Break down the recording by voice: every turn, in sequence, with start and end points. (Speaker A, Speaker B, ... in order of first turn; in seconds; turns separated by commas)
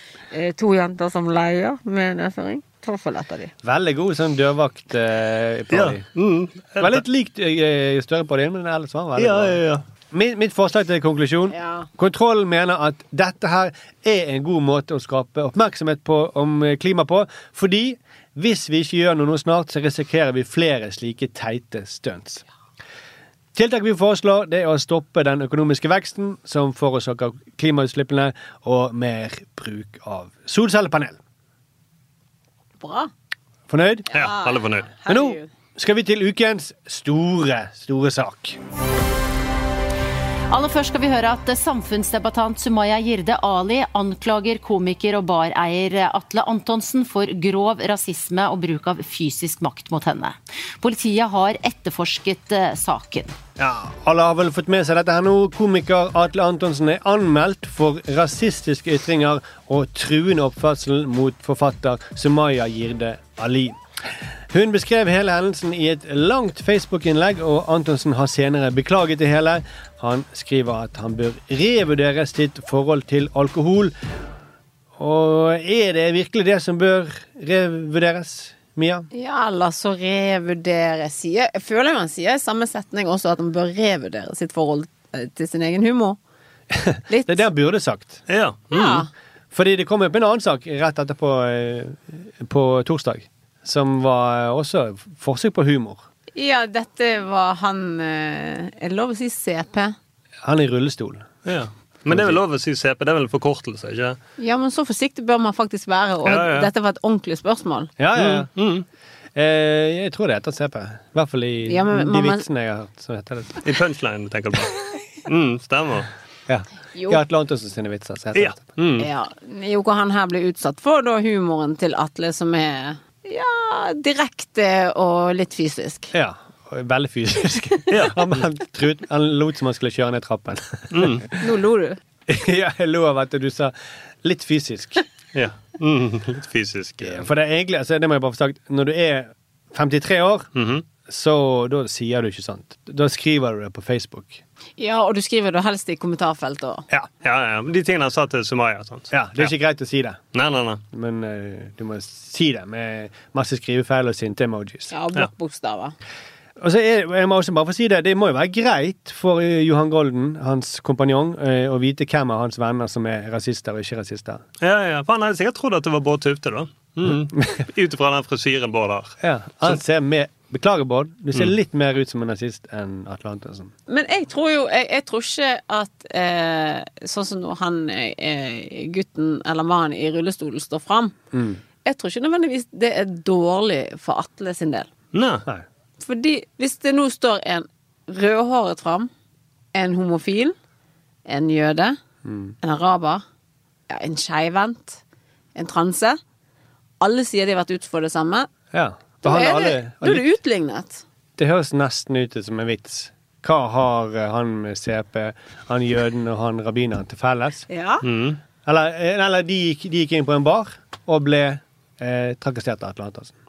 Speaker A: 0.3-3.5, Speaker B: 3.6-6.0, Speaker C: 5.7-7.0, Speaker B: 6.8-9.6, Speaker C: 9.2-9.8, Speaker B: 10.1-22.4, Speaker A: 11.5-11.9, Speaker B: 23.5-31.2, Speaker A: 32.8-33.1, Speaker B: 33.7-34.1, Speaker A: 34.1-35.5, Speaker C: 34.1-34.9, Speaker B: 35.1-38.6, Speaker D: 40.5-53.3, Speaker B: 53.6-63.8, Speaker B: 64.5-73.9, Speaker B: 75.0-79.1, Speaker A: 79.1-86.2, Speaker B: 86.7-88.2, Speaker A: 87.1-87.5, Speaker C: 88.3-89.0, Speaker A: 88.7-89.1, Speaker B: 89.5-96.0, Speaker A: 96.3-100.0, Speaker B: 100.4-101.3, Speaker C: 101.4-104.2, Speaker B: 102.1-102.4, Speaker A: 104.4-107.9, Speaker C: 106.2-106.7, Speaker B: 108.0-108.5, Speaker C: 108.1-108.8, Speaker B: 109.3-113.6, Speaker A: 111.7-112.5, Speaker C: 113.6-116.1, Speaker B: 116.5-118.7, Speaker A: 116.9-117.2, Speaker C: 118.3-119.1, Speaker A: 119.0-126.1, Speaker B: 126.1-131.3, Speaker C: 127.9-128.2, Speaker C: 130.9-131.3, Speaker A: 131.4-132.0, Speaker B: 132.3-135.0, Speaker C: 135.3-137.2, Speaker B: 137.0-140.5, Speaker C: 140.6-140.8, Speaker B: 141.0-144.4, Speaker A: 144.8-146.8, Speaker C: 147.2-149.5, Speaker B: 149.1-150.2, Speaker C: 150.3-150.8, Speaker B: 150.9-154.9, Speaker A: 154.9-155.9, Speaker B: 156.6-164.4, Speaker C: 164.6-169.8, Speaker B: 169.2-173.7, Speaker A: 173.9-181.2, Speaker B: 181.3-181.6, Speaker A: 181.8-184.9, Speaker C: 185.1-185.4, Speaker A: 186.0-189.1, Speaker A: 189.7-190.5, Speaker A: 191.2-192.0, Speaker B: 192.2-192.5, Speaker A: 192.6-193.2, Speaker A: 193.9-195.0, Speaker A: 195.6-196.2, Speaker A: 197.0-198.5, Speaker B: 198.7-200.3, Speaker A: 199.2-201.0, Speaker B: 201.4-207.7, Speaker A: 207.7-208.0, Speaker C: 208.0-208.4, Speaker B: 208.6-213.3